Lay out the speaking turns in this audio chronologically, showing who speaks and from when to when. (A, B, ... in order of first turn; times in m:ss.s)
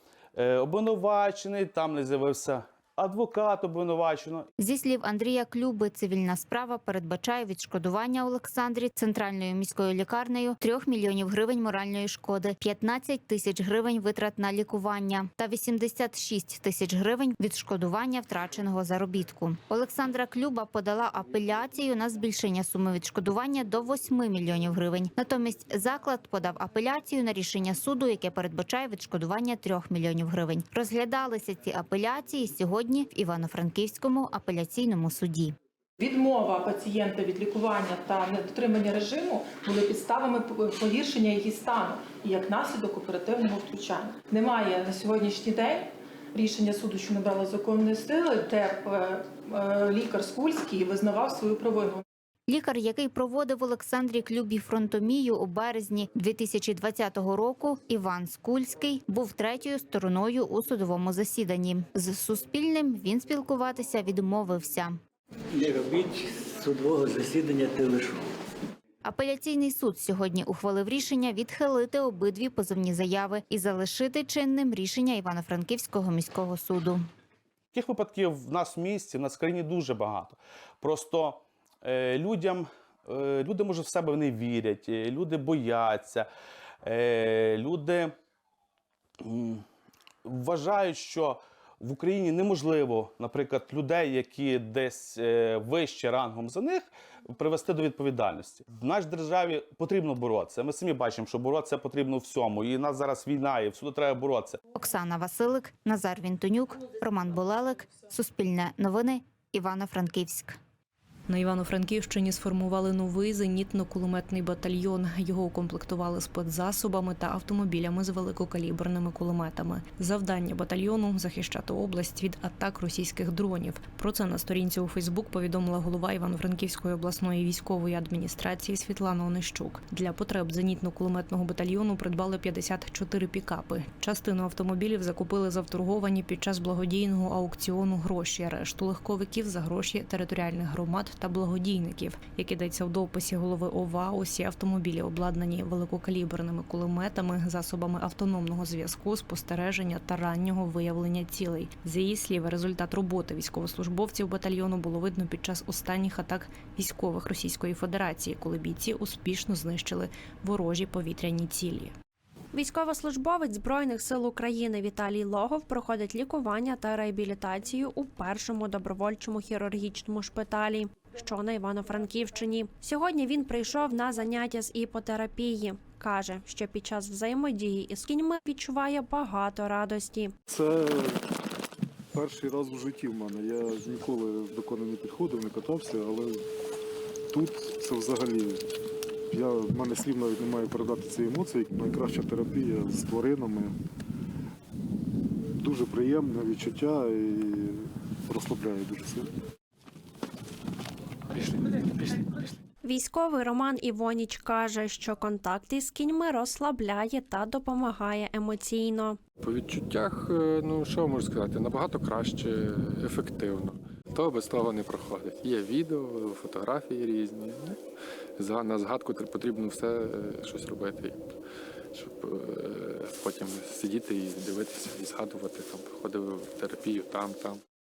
0:00.4-0:04.5 A
0:04.6-0:35.5 B
0:36.0-0:52.0 C
0:52.5-1:05.0 B
1:05.5-1:08.2 D
1:09.0-1:17.0 B
1:17.7-1:26.3 A
1:26.8-1:28.1 A
1:29.2-1:29.6 A
1:30.2-1:44.6 A
1:44.7-1:50.6 B
1:51.3-2:41.9 E
2:42.5-3:00.3 F
3:00.5-3:01.2 G
3:02.1-3:06.4 G
3:07.3-3:08.6 G
3:09.3-3:13.7 G
3:15.6-3:19.3 G
3:22.8-3:29.2 F
3:30.7-3:33.6 H
3:34.2-3:35.5 H
3:36.1-3:37.4 H
3:38.5-3:41.0 H
3:42.0-3:47.2 H